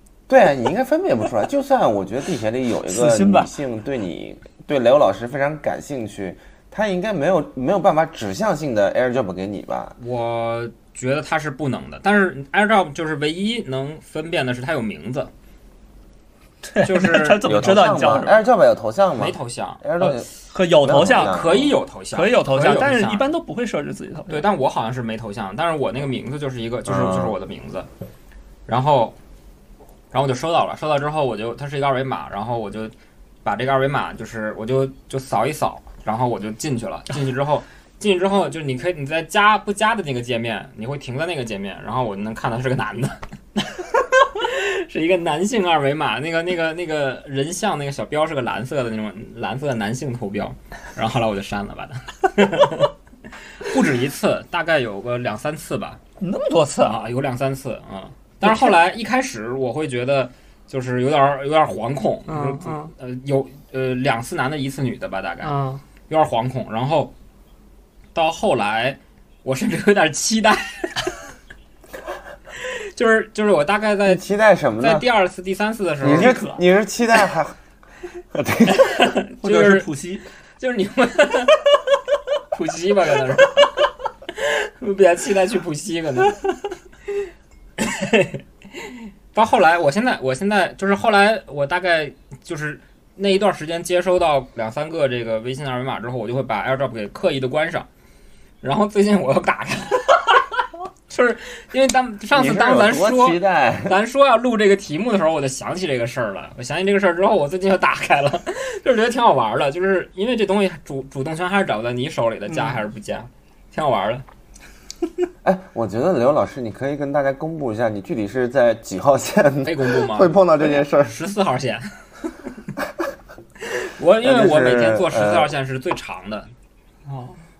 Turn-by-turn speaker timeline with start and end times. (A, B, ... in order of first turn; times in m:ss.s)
0:00.3-0:10.0 A
0:02.9-0:03.5 B
0:10.0-0:15.3 C
0:16.6-0:18.4 B
0:16.8-0:18.0 C
0:17.4-0:20.3 A
0:19.2-0:19.9 C
0:20.0-0:21.4 B
0:20.8-0:21.8 A
0:20.9-0:23.3 C
0:22.1-0:24.5 B
0:24.3-0:27.9 C
0:26.9-0:27.4 A
0:28.7-0:29.2 C
0:30.1-0:32.9 C
0:33.4-0:52.9 C
0:53.6-0:56.0 C
0:56.2-0:57.0 B
0:56.8-1:05.6 C
0:58.4-0:58.8 B
1:02.3-1:02.9 B
1:05.4-1:05.8 B
1:06.1-1:07.1 C
1:08.1-1:11.2 C
1:12.6-1:14.2 C
1:14.1-1:15.1 A
1:14.8-1:16.4 C
1:16.0-1:17.6 A
1:16.1-1:16.6 B
1:18.3-1:19.1 A
1:18.7-1:19.9 C
1:19.4-1:20.2 B
1:20.6-1:21.7 C
1:22.5-1:26.4 C
1:27.8-1:37.9 C
1:38.6-1:54.2 C
1:42.3-1:44.0 A
1:52.5-1:52.8 B
1:55.4-2:01.2 A
1:59.6-2:02.0 C
2:03.6-2:06.5 C
2:04.2-2:05.5 A
2:07.1-2:07.4 B